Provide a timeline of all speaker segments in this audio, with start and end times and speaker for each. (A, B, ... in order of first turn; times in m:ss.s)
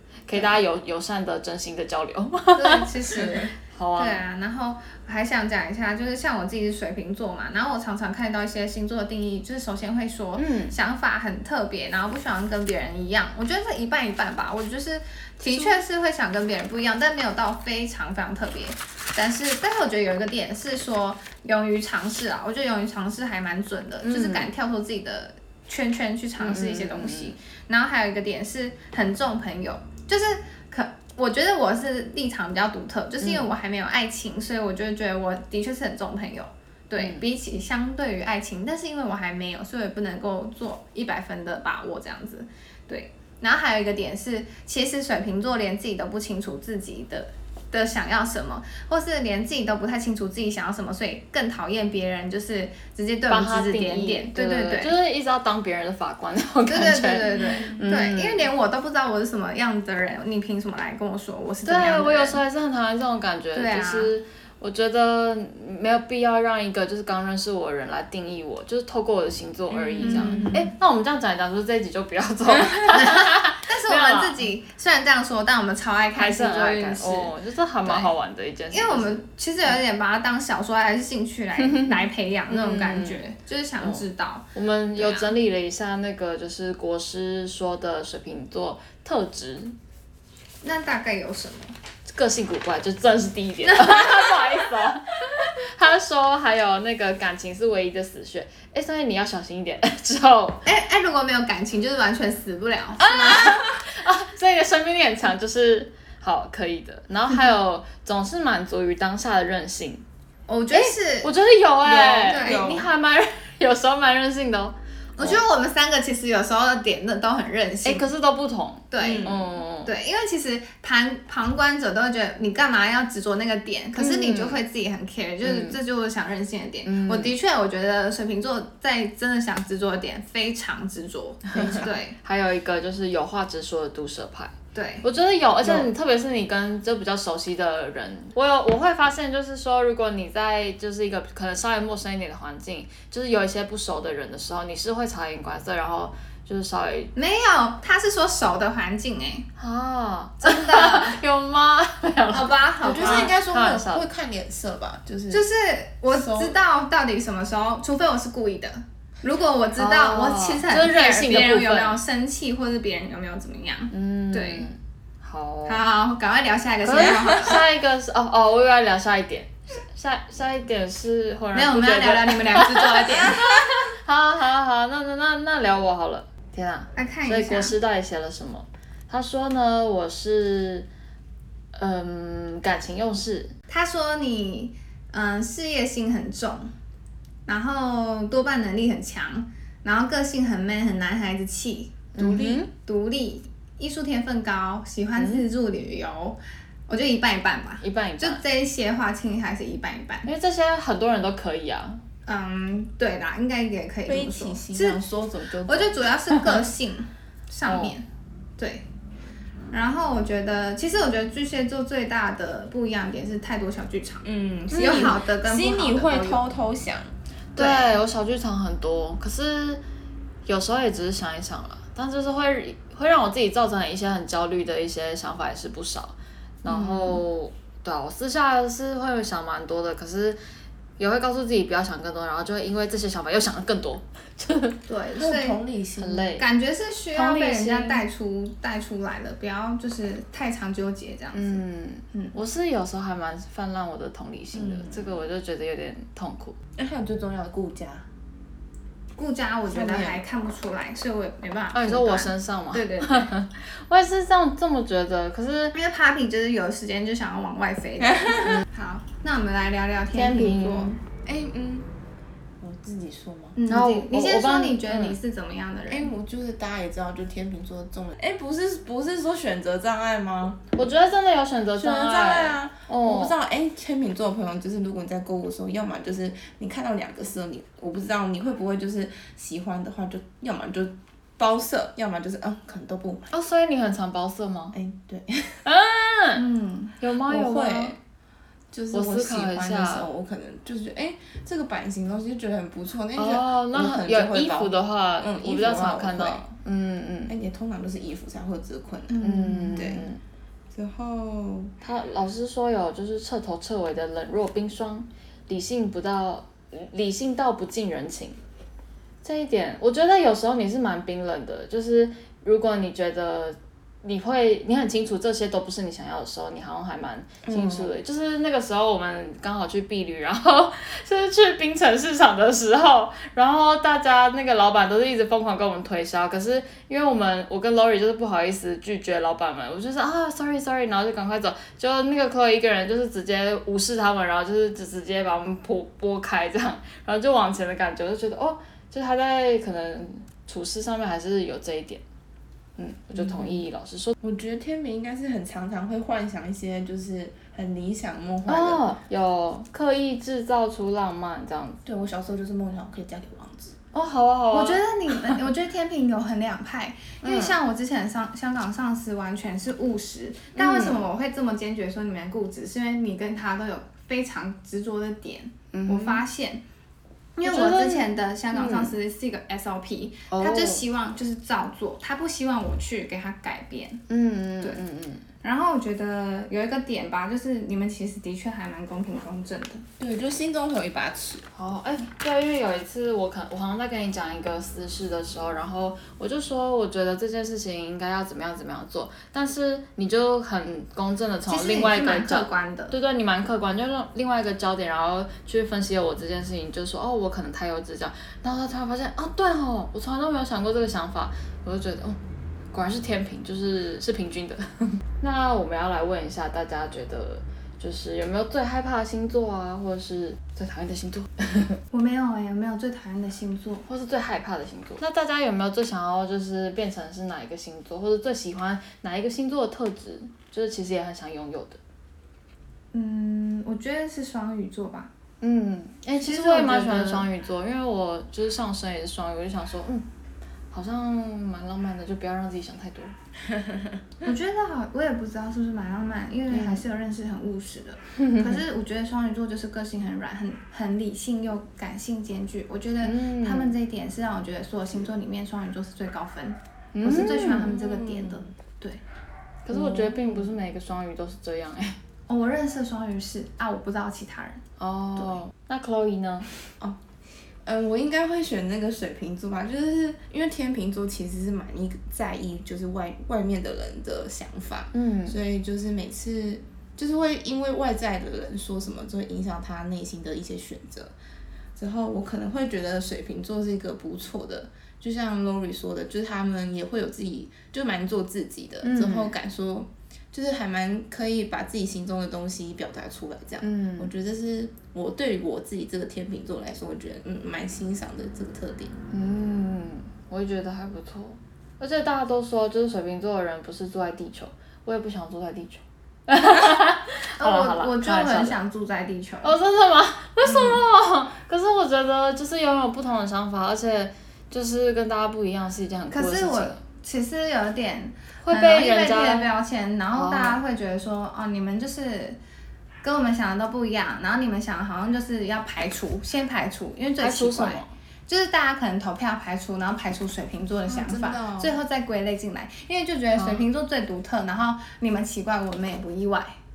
0:00.2-0:04.2 A
0:02.6-0:54.9 B
0:03.2-0:03.5 C
0:10.4-0:10.7 A
0:15.4-0:15.8 A
0:24.0-0:24.5 A
0:26.4-0:27.3 A
0:37.0-0:37.2 A
0:53.3-0:58.5 A
0:56.7-1:02.4 B
0:57.4-0:57.8 C
1:01.6-1:14.5 A
1:03.5-1:04.1 B
1:09.7-1:10.6 C
1:10.0-1:10.7 B
1:12.8-1:17.3 B
1:16.2-1:19.2 A
1:17.8-1:18.1 B
1:18.7-1:25.3 B
1:21.6-1:23.2 A
1:24.5-1:29.8 A
1:30.6-1:31.7 B
1:32.1-1:40.6 A
1:40.6-1:43.6 B
1:43.0-1:50.0 A
1:50.5-1:51.3 B
1:50.7-1:55.4 A
1:51.8-1:52.9 C
1:52.2-1:52.8 B
1:55.2-1:58.0 B
1:57.8-1:59.9 A
1:58.9-1:59.3 B
1:59.0-1:59.4 C
1:59.8-2:12.2 B
2:03.9-2:04.6 A
2:05.4-2:05.8 A
2:06.8-2:07.3 A
2:11.6-2:11.8 C
2:11.6-2:27.1 A
2:14.7-2:15.0 B
2:27.1-2:29.5 B
2:29.6-2:34.0 A
2:30.4-2:31.2 B
2:32.3-2:33.3 B
2:32.8-2:35.4 C
2:35.3-2:44.7 B
2:36.1-2:36.5 C
2:39.8-2:42.0 A
2:43.9-2:45.8 A
2:45.6-2:47.6 B
2:46.8-3:00.9 A
2:51.5-2:53.7 B
2:56.9-2:57.7 B
3:01.7-3:03.5 A
3:03.7-3:06.7 B
3:07.5-3:20.3 B
3:12.2-3:12.7 A
3:15.2-3:15.4 A
3:17.8-3:18.4 A
3:20.2-3:22.0 A
3:22.2-3:25.0 B
3:24.0-3:26.1 C
3:25.7-3:28.0 B
3:26.4-3:26.6 A
3:27.6-3:27.9 A
3:28.6-3:28.8 B
3:29.7-3:36.4 B
3:34.2-3:37.1 C
3:37.5-3:39.8 A
3:37.6-3:38.0 B
3:40.4-3:50.4 A
3:46.6-3:47.2 B
3:51.0-3:54.8 A
3:54.9-3:55.6 B
3:55.2-3:56.3 C
3:56.0-3:56.4 A
3:56.4-4:01.6 B
3:57.1-3:58.0 A
4:01.3-4:06.6 A
4:04.5-4:05.2 C
4:06.8-4:08.1 C
4:09.2-4:13.3 B
4:09.7-4:10.2 C
4:11.7-4:15.7 A
4:15.7-4:21.0 B
4:20.1-4:20.9 A
4:21.2-4:21.9 C
4:22.6-4:23.6 C
4:23.6-4:26.1 B
4:23.7-4:25.2 A
4:25.9-4:30.7 C
4:30.7-4:33.3 A
4:31.8-4:43.3 C
4:43.3-4:44.8 A
4:44.7-4:45.6 C
4:45.6-4:46.4 A
4:46.3-4:47.0 B
4:47.0-4:48.0 A
4:47.3-4:48.0 C
4:48.7-4:56.4 C
4:48.9-4:50.1 A
4:53.2-4:57.3 A
4:57.3-5:00.1 C
4:59.1-5:00.0 B
4:59.2-5:00.2 A
5:00.7-5:01.7 C
5:01.8-5:08.4 A
5:09.2-5:42.0 A
5:17.4-5:17.9 C
5:42.8-5:44.1 A
5:43.1-5:43.6 C
5:44.2-5:48.9 C
5:48.4-5:51.8 A
5:51.8-5:53.7 C
5:53.9-5:55.4 A
5:54.5-6:06.6 B
5:57.2-5:57.6 A
6:00.6-6:01.0 A
6:05.7-6:06.2 A
6:07.4-6:14.0 B
6:07.4-6:08.9 A
6:10.3-6:10.8 A
6:14.1-6:15.2 A
6:15.4-6:19.8 B
6:20.0-6:21.4 C
6:21.5-6:42.2 A
6:31.5-6:32.9 B
6:42.7-6:51.8 A
6:51.9-6:53.8 B
6:53.9-7:01.8 A
7:02.9-7:05.1 B
7:05.4-7:10.0 A
7:06.2-7:07.3 B
7:10.7-7:13.1 A
7:13.5-7:13.9 C
7:14.2-7:29.0 B
7:16.5-7:16.8 A
7:18.2-7:18.6 A
7:23.0-7:23.7 A
7:26.9-7:28.4 A
7:29.6-7:32.0 A
7:32.3-7:34.6 B
7:34.8-7:36.5 A
7:35.2-7:35.4 B
7:37.6-7:51.1 C
7:44.9-7:45.4 A
7:51.8-8:09.0 C
7:58.8-7:59.3 A
8:03.6-8:04.1 A
8:09.1-8:18.6 A
8:17.4-8:19.6 B
8:19.4-8:26.8 A
8:26.1-8:32.4 B
8:28.4-8:29.5 A
8:30.1-8:30.6 A
8:33.0-8:46.5 B
8:37.2-8:37.9 A
8:40.9-8:41.8 C
8:43.3-8:43.6 A